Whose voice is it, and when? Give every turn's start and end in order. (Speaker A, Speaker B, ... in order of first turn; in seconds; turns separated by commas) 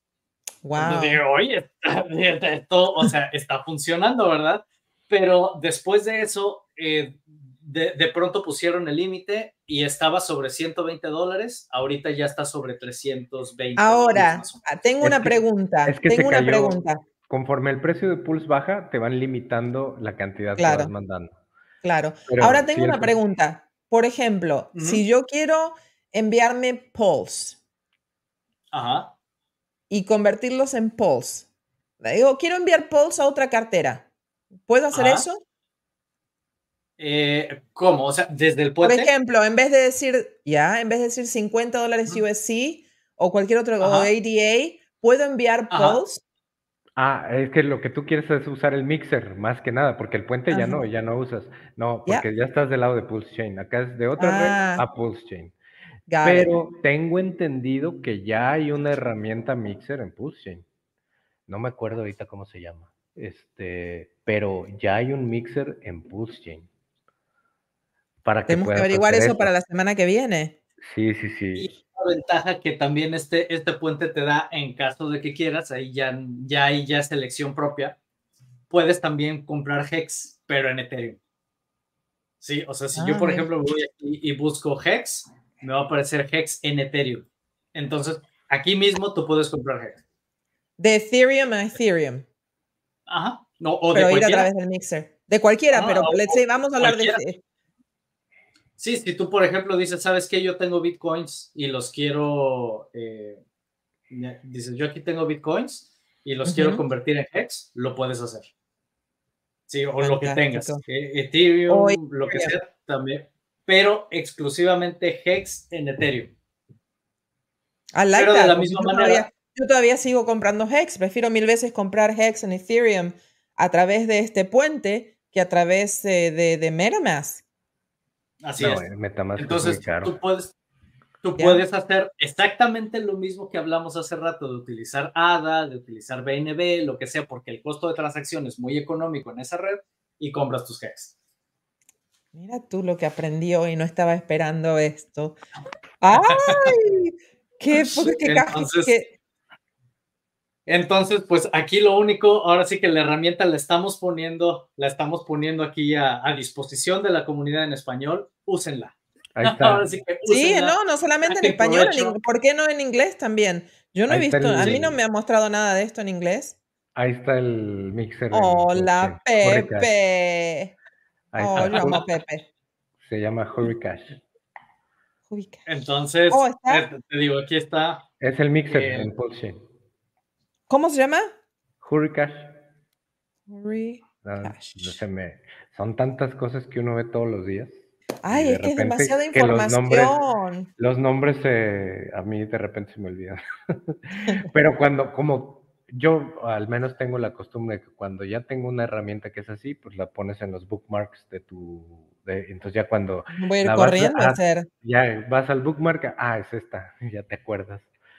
Speaker A: 0.6-1.2, Speaker B: 0.8-14.6, Speaker A: 13.8-17.0, Speaker C: 15.0-21.3, Speaker A: 20.6-20.9, Speaker A: 21.8-27.6, Speaker C: 22.3-23.2, Speaker B: 24.8-25.0, Speaker B: 28.7-29.1, Speaker A: 29.9-31.5, Speaker A: 32.0-34.1, Speaker A: 34.6-35.4, Speaker B: 34.9-35.3, Speaker B: 37.0-39.1, Speaker A: 38.8-46.2, Speaker B: 43.8-44.1, Speaker B: 45.7-46.0, Speaker C: 47.0-55.5, Speaker A: 50.5-50.8, Speaker A: 54.2-54.8, Speaker A: 56.1-56.5, Speaker C: 56.2-60.6, Speaker C: 61.5-66.7, Speaker C: 68.2-69.5, Speaker A: 68.5-70.6, Speaker C: 70.8-71.7, Speaker B: 71.5-78.0, Speaker B: 78.7-81.2, Speaker B: 82.4-90.0, Speaker A: 83.0-83.5, Speaker A: 90.8-92.3, Speaker B: 93.1-94.5, Speaker A: 93.9-97.4, Speaker B: 95.7-97.2, Speaker B: 98.8-103.4, Speaker B: 104.1-108.5, Speaker A: 106.4-106.8, Speaker B: 109.7-116.3, Speaker A: 110.0-110.8, Speaker A: 111.7-112.5, Speaker A: 117.9-127.4, Speaker B: 118.1-119.3, Speaker B: 128.4-128.8, Speaker C: 128.6-130.1, Speaker B: 129.4-130.5, Speaker B: 131.2-141.1, Speaker A: 131.4-131.6, Speaker A: 142.3-145.4, Speaker A: 146.0-149.1, Speaker B: 146.3-146.7, Speaker B: 147.7-148.9, Speaker B: 150.7-162.2, Speaker C: 159.3-159.9, Speaker A: 160.3-166.6, Speaker C: 164.1-165.0, Speaker B: 164.6-164.8, Speaker C: 166.9-169.9, Speaker A: 168.3-170.7, Speaker C: 171.3-172.0, Speaker A: 171.4-172.5, Speaker B: 171.6-172.0, Speaker C: 173.0-174.2, Speaker A: 175.3-175.6, Speaker B: 175.7-178.1, Speaker A: 176.3-176.9, Speaker C: 178.2-179.6, Speaker B: 178.7-179.1, Speaker A: 180.7-181.3, Speaker C: 181.8-182.6, Speaker A: 183.5-185.0, Speaker C: 184.2-190.2, Speaker A: 188.2-190.7, Speaker C: 190.8-207.9, Speaker A: 194.2-194.5, Speaker A: 203.3-204.7